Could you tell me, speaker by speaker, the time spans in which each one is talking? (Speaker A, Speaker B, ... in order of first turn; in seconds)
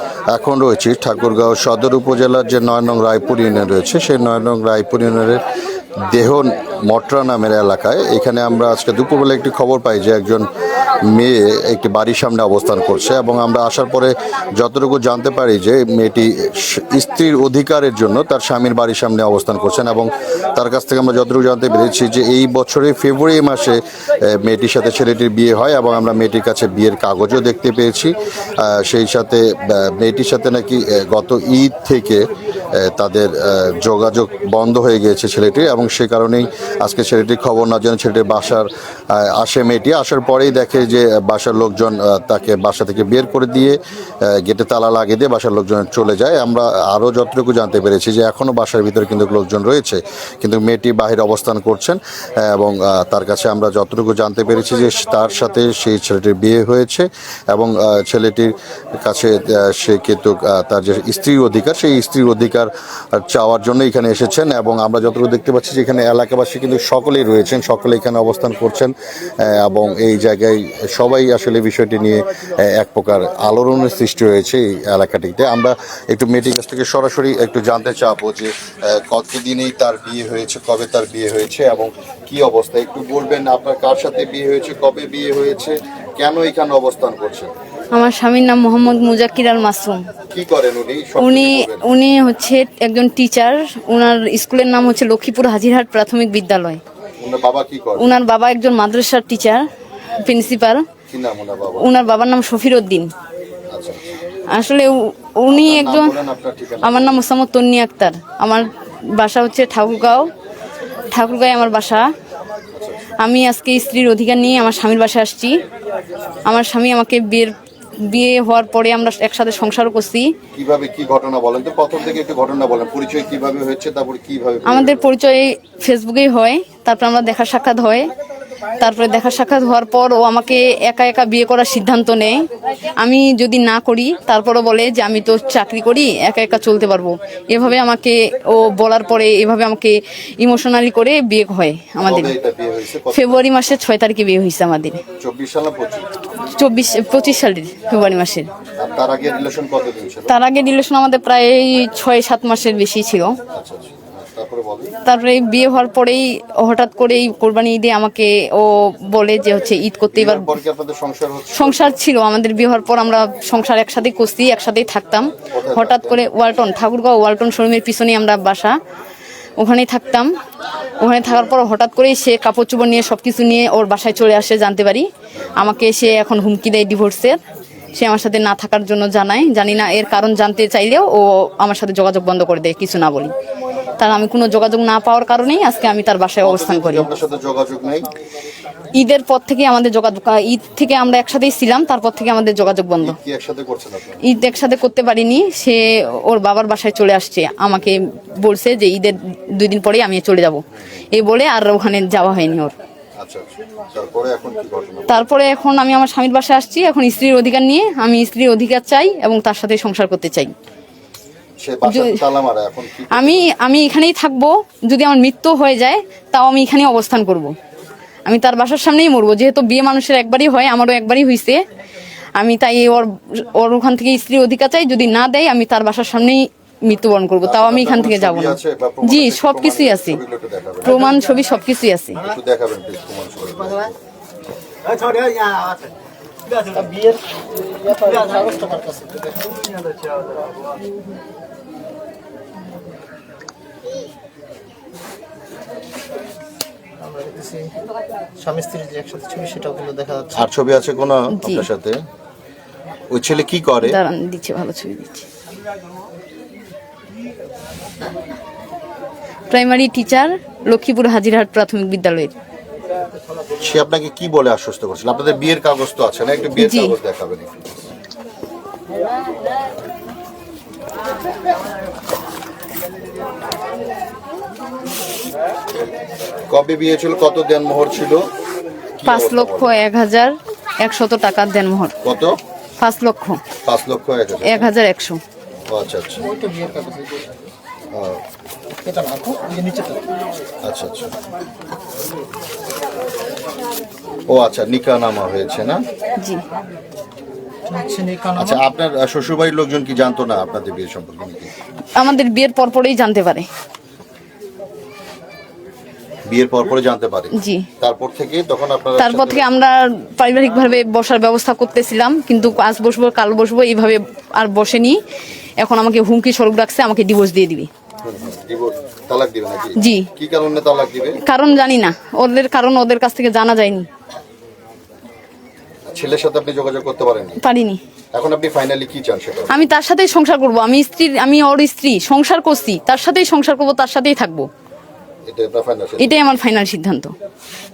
Speaker A: 0.3-5.4, 6.1-10.5, 11.1-32.3, 32.8-43.8, 44.3-87.5, 90.3-91.9, 97.2-98.1, 101.1-101.9, 103.7-104.1, 105.5-107.2, 112.7-113.0, 120.5-125.1, 142.0-143.4, 145.2-146.1, 148.8-150.3, 153.5-154.9, 160.1-161.9, 165.5-166.2, 186.4-188.1, 193.0-194.2, 203.2-205.2, 211.6-213.5, 227.4-231.0, 232.2-234.0, 250.3-252.0, 253.1-254.0, 263.6-267.7, 276.5-278.2, 279.0-279.8, 282.0-282.3, 283.6-284.7, 285.7-286.3, 287.9-288.2, 290.6-291.1, 294.3-295.8, 298.4-301.5, 306.3-309.4, 318.0-321.2, 325.9-327.4, 328.1-329.6, 335.3-336.1
Speaker B: 87.9-90.0, 91.2-96.8, 98.0-99.6, 100.2-100.8, 101.8-103.1, 104.5-106.2, 106.8-110.3, 111.1-112.0, 113.2-115.6, 116.5-120.3, 124.6-128.1, 128.8-132.4, 133.0-142.3, 143.1-145.0, 146.4-148.5, 150.3-153.3, 155.0-160.5, 161.5-168.7, 169.6-170.3, 171.0-177.4, 177.9-183.3, 184.0-187.1, 189.0-193.2, 194.2-200.6, 201.1-202.8, 205.1-210.5, 211.8-212.2, 213.1-217.5, 218.3-221.6, 222.4-230.2, 230.8-232.2, 251.3-251.7, 253.8-255.3, 259.5-262.3, 266.6-266.9, 279.0-281.9, 282.8-283.4, 284.4-285.2, 301.9-303.4, 307.4-307.7, 309.0-315.0, 315.6-317.7, 319.8-320.1, 321.2-323.9, 327.4-327.8, 329.5-334.5, 336.0-337.1
Speaker C: 235.0-235.8, 236.6-237.2, 237.8-239.7, 247.0-247.7, 248.4-250.4, 286.3-287.2, 288.8-290.0, 297.7-298.6